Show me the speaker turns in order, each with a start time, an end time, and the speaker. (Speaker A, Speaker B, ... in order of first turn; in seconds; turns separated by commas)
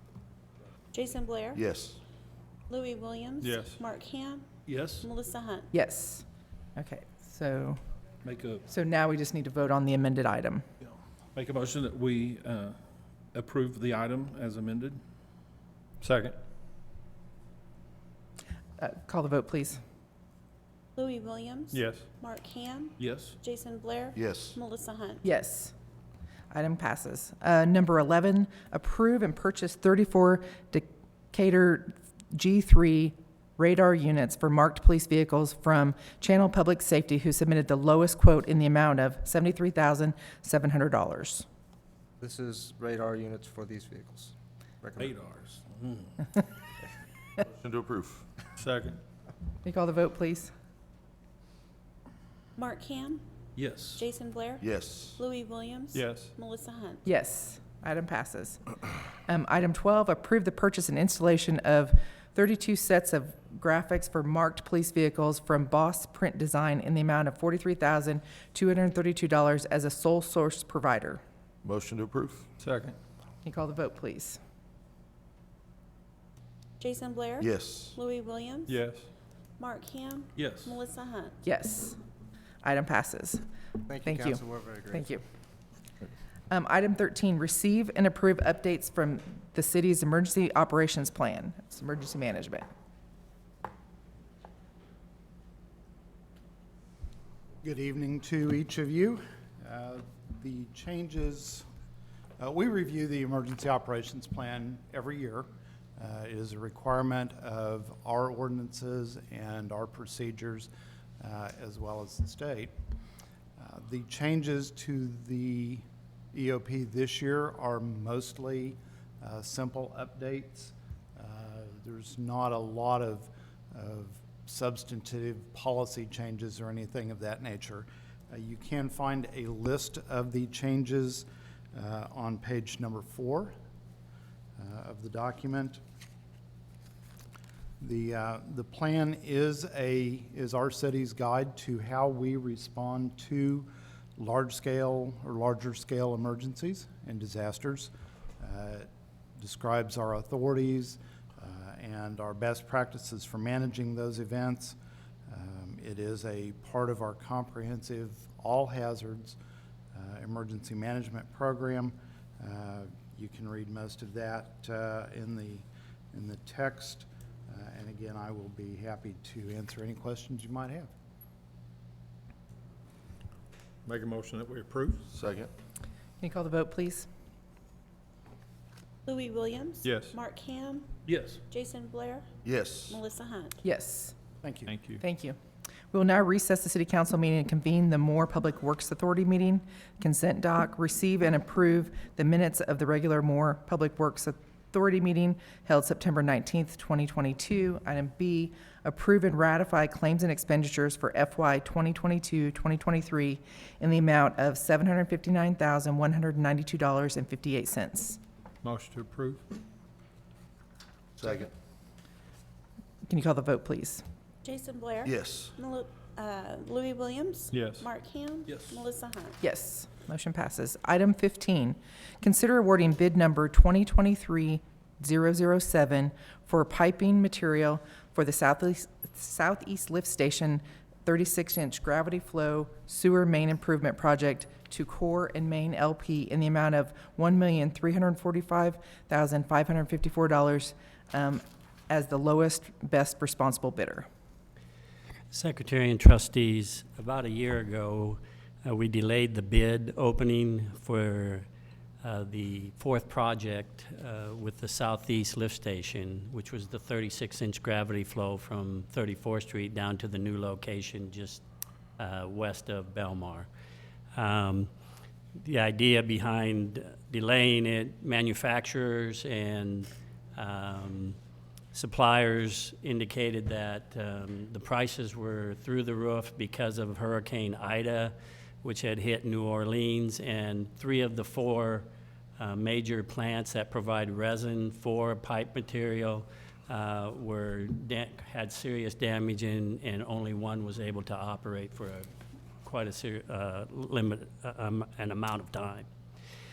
Speaker A: 0.9-1.6, Speaker B: 1.5-2.0, Speaker A: 2.7-4.4, Speaker C: 3.4-3.8, Speaker D: 4.6-5.1, Speaker A: 5.0-5.7, Speaker E: 5.7-6.2, Speaker E: 6.8-7.8, Speaker D: 8.2-8.6, Speaker E: 8.7-10.6, Speaker D: 11.3-12.8, Speaker D: 13.3-15.0, Speaker C: 16.0-16.4, Speaker E: 18.8-19.8, Speaker A: 21.0-22.9, Speaker C: 21.7-22.1, Speaker D: 23.0-23.4, Speaker A: 23.4-25.2, Speaker B: 24.1-24.6, Speaker E: 25.2-25.7, Speaker E: 26.5-41.5, Speaker F: 42.2-45.1, Speaker D: 45.0-46.2, Speaker B: 47.5-48.2, Speaker C: 48.6-49.0, Speaker E: 49.6-50.5, Speaker A: 52.6-53.2, Speaker D: 53.5-54.0, Speaker A: 54.0-54.6, Speaker B: 54.6-55.2, Speaker A: 55.2-57.0, Speaker C: 55.9-56.3, Speaker E: 57.0-58.6, Speaker E: 59.2-71.2, Speaker B: 71.6-72.5, Speaker C: 72.6-73.0, Speaker E: 73.4-74.4, Speaker A: 76.8-78.7, Speaker B: 77.4-78.0, Speaker C: 78.7-79.1, Speaker A: 79.6-81.3, Speaker D: 80.3-80.8, Speaker E: 81.4-82.0, Speaker E: 82.6-83.4, Speaker F: 83.8-85.1, Speaker E: 84.0-85.2, Speaker E: 86.5-92.7, Speaker G: 97.6-101.6, Speaker G: 102.4-110.7, Speaker G: 111.2-112.7, Speaker G: 113.6-133.5, Speaker G: 134.6-135.8, Speaker G: 137.8-154.8, Speaker G: 155.3-159.4, Speaker G: 159.9-170.9, Speaker C: 173.8-175.1, Speaker B: 175.1-175.5, Speaker E: 176.2-177.1, Speaker A: 179.1-180.8, Speaker C: 179.8-180.1, Speaker D: 181.0-181.4, Speaker A: 181.5-182.2, Speaker B: 182.4-183.0, Speaker A: 182.9-183.6, Speaker E: 183.6-184.1, Speaker G: 184.4-184.7, Speaker C: 184.7-185.0, Speaker E: 185.0-185.4, Speaker E: 185.9-208.2, Speaker C: 208.6-209.4, Speaker D: 211.2-211.5, Speaker B: 211.2-211.5, Speaker E: 213.0-214.0, Speaker A: 214.4-219.3, Speaker B: 215.0-215.5, Speaker C: 217.5-217.8, Speaker D: 218.4-218.8, Speaker E: 219.4-244.1, Speaker H: 245.3-251.5, Speaker H: 252.0-261.4, Speaker H: 262.0-263.5, Speaker H: 264.1-264.7, Speaker H: 265.4-271.2, Speaker H: 271.7-281.9, Speaker H: 282.4-292.0, Speaker H: 292.6-295.9